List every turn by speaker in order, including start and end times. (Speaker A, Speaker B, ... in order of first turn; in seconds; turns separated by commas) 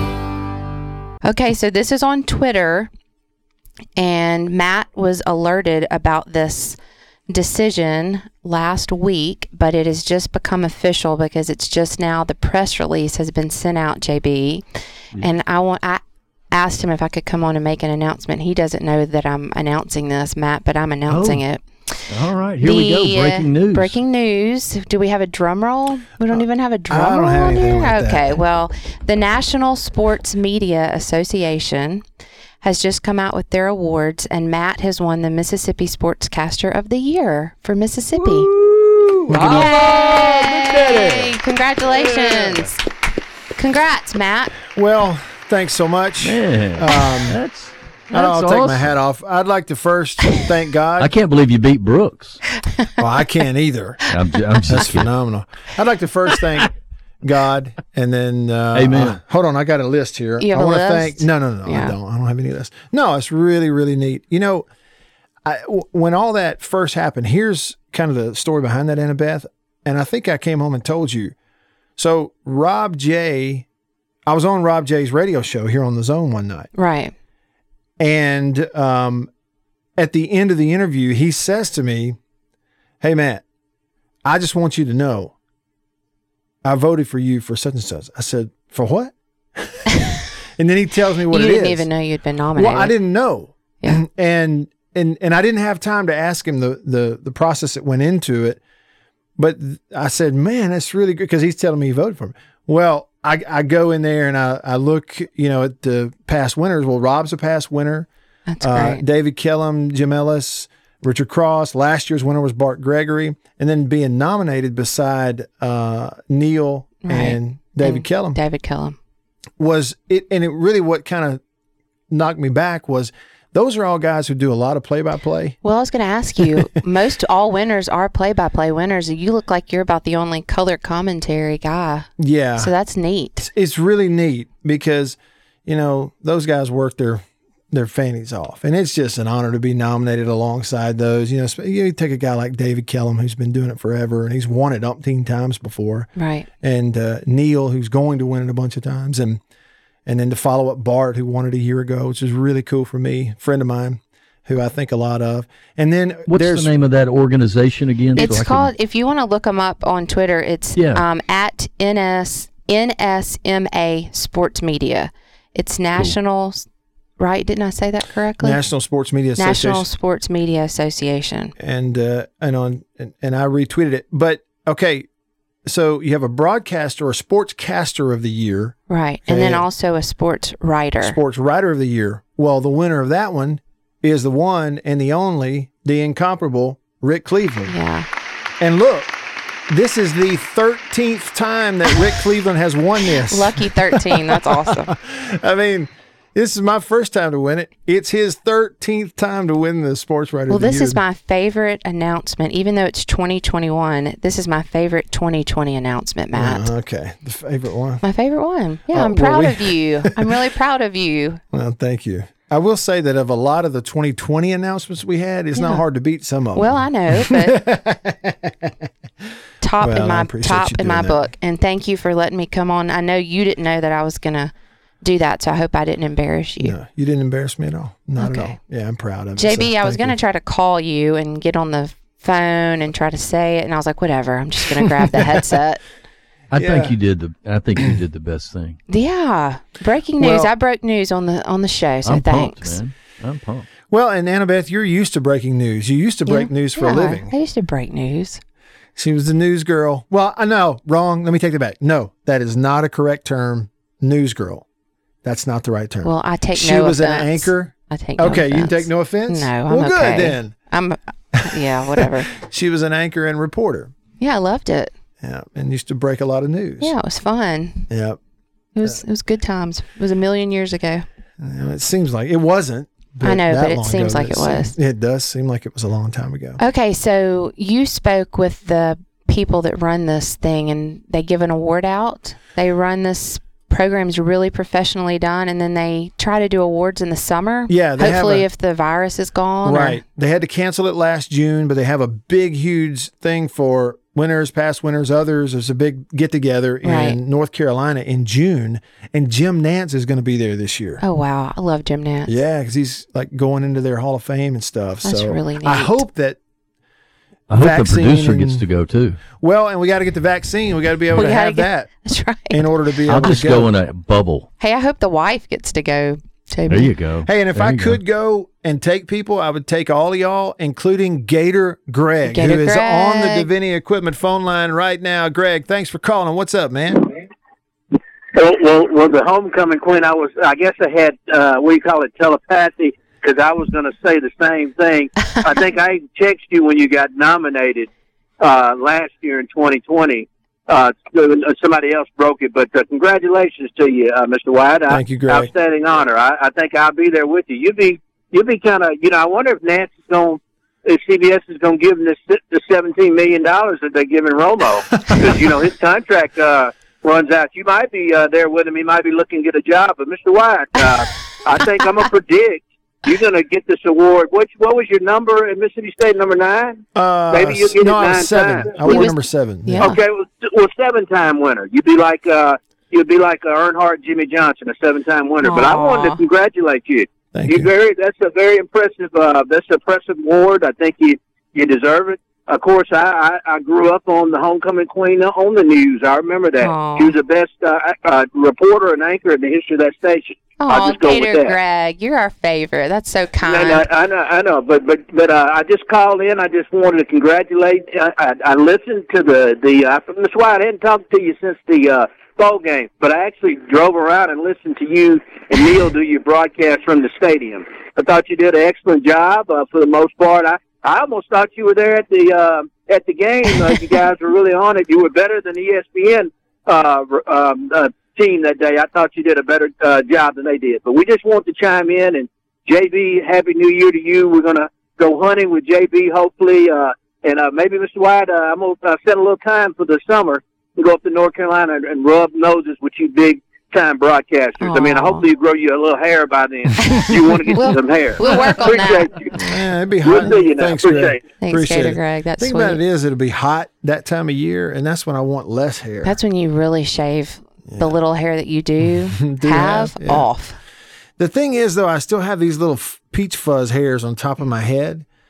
Speaker A: 1.2-2.9, Speaker A: 4.0-6.8, Speaker A: 7.3-16.0, Speaker A: 16.5-22.1, Speaker B: 21.1-21.4, Speaker B: 22.1-24.0, Speaker A: 22.6-32.0, Speaker C: 26.9-28.4, Speaker A: 32.6-38.5, Speaker C: 38.5-39.7, Speaker B: 39.3-41.2, Speaker A: 39.4-42.8, Speaker A: 43.5-44.6, Speaker C: 44.7-47.4, Speaker B: 46.2-48.9, Speaker C: 48.1-51.1, Speaker B: 51.0-52.4, Speaker C: 53.0-54.1, Speaker B: 54.1-55.1, Speaker C: 54.6-64.7, Speaker B: 58.7-59.2, Speaker A: 60.4-61.9, Speaker C: 65.4-71.3, Speaker C: 72.0-73.7, Speaker C: 74.3-76.7, Speaker A: 76.7-77.1, Speaker C: 78.0-79.3, Speaker C: 80.0-82.2, Speaker C: 83.0-83.4, Speaker C: 84.2-85.3, Speaker C: 86.6-91.9, Speaker A: 91.3-93.0, Speaker C: 92.5-98.6, Speaker C: 99.4-108.1, Speaker A: 108.5-109.0, Speaker C: 108.6-118.4, Speaker A: 117.0-118.9, Speaker C: 119.6-121.4, Speaker C: 122.1-125.6, Speaker A: 125.6-133.5, Speaker C: 132.2-132.7, Speaker C: 133.4-149.4, Speaker A: 146.2-146.5, Speaker C: 150.1-156.7, Speaker B: 156.3-158.7, Speaker A: 158.2-166.6, Speaker B: 160.8-161.0, Speaker A: 167.2-168.6, Speaker C: 168.4-169.8, Speaker A: 169.3-171.5, Speaker C: 171.6-175.1, Speaker C: 175.7-179.7, Speaker A: 178.9-181.2, Speaker C: 181.0-187.7, Speaker A: 187.7-188.1, Speaker C: 188.6-189.1, Speaker C: 189.7-201.0, Speaker A: 193.3-194.9, Speaker A: 200.5-206.7, Speaker C: 206.3-208.0, Speaker A: 208.0-211.4, Speaker C: 208.9-210.1, Speaker C: 211.5-218.9, Speaker A: 215.5-215.8, Speaker A: 216.5-217.6, Speaker A: 219.6-226.7, Speaker C: 219.8-221.3, Speaker C: 226.6-230.1, Speaker A: 228.2-228.5, Speaker A: 229.4-235.8, Speaker B: 236.5-238.8, Speaker C: 236.5-236.9, Speaker A: 238.9-242.8, Speaker C: 240.2-240.5, Speaker B: 242.0-243.7, Speaker C: 243.9-247.3, Speaker A: 246.2-248.4, Speaker C: 248.9-254.6, Speaker C: 255.2-260.5, Speaker A: 256.0-262.4, Speaker C: 261.3-261.6, Speaker C: 262.3-263.9, Speaker A: 264.2-264.9, Speaker C: 265.2-266.9, Speaker A: 266.8-267.9, Speaker C: 267.9-268.2, Speaker A: 268.8-271.0, Speaker C: 271.4-276.6, Speaker A: 273.2-274.7, Speaker A: 276.6-290.0, Speaker C: 287.7-288.5, Speaker C: 289.6-301.0, Speaker A: 296.8-297.2, Speaker A: 301.0-302.3, Speaker C: 302.2-306.4, Speaker A: 305.0-306.0, Speaker B: 307.5-309.2, Speaker C: 307.5-308.6, Speaker C: 309.4-311.9, Speaker A: 311.1-312.7, Speaker C: 312.5-313.7, Speaker B: 313.1-314.5, Speaker A: 314.6-316.9, Speaker B: 316.7-318.0, Speaker C: 317.2-327.1, Speaker A: 322.2-323.5, Speaker D: 328.3-337.9, Speaker D: 338.4-369.1, Speaker C: 344.9-345.5, Speaker C: 366.9-369.9, Speaker A: 368.8-370.0, Speaker D: 369.8-391.6, Speaker A: 375.4-376.2, Speaker C: 377.3-377.7, Speaker A: 386.6-387.1, Speaker A: 390.6-393.9, Speaker D: 393.4-439.4, Speaker A: 434.6-435.2, Speaker A: 436.8-439.1, Speaker C: 439.3-446.2, Speaker D: 440.0-441.2, Speaker A: 441.4-442.8, Speaker A: 446.0-450.6, Speaker C: 449.1-450.3, Speaker C: 451.2-455.0